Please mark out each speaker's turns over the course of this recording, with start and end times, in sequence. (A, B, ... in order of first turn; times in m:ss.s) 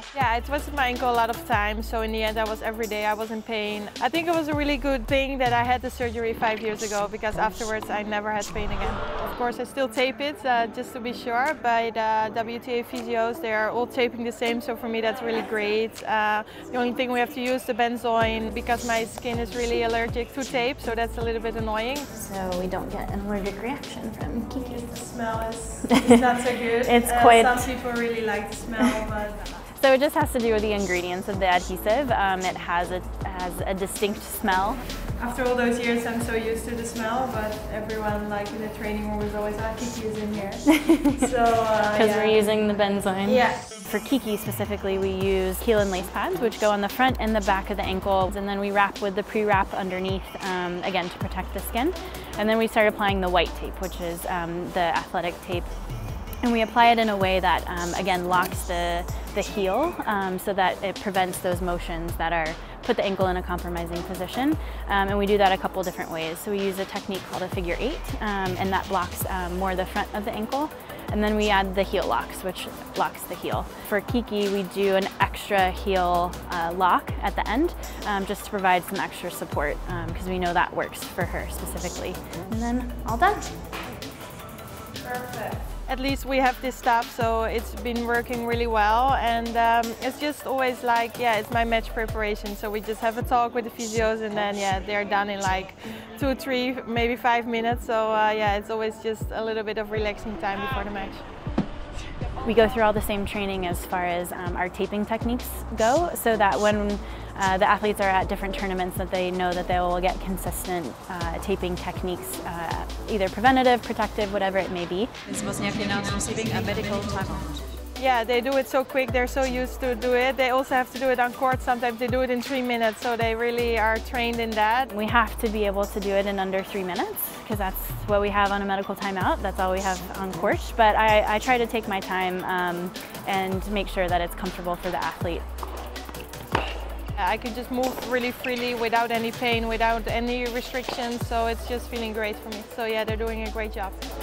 0:00.1-0:22.1 A
0:22.1-0:24.8 B
0:24.5-0:29.5 A
0:25.9-0:26.2 B
0:26.8-0:27.7 B
0:29.8-0:34.8 B
0:35.2-0:42.4 A
0:40.8-0:41.3 B
0:41.9-0:55.7 B
0:43.2-0:43.6 A
0:56.4-1:23.5 B
1:25.0-1:41.3 A
1:42.4-1:55.1 B
1:55.3-1:57.6 C
1:58.0-2:04.9 A
2:04.9-2:15.4 B
2:17.2-2:24.0 A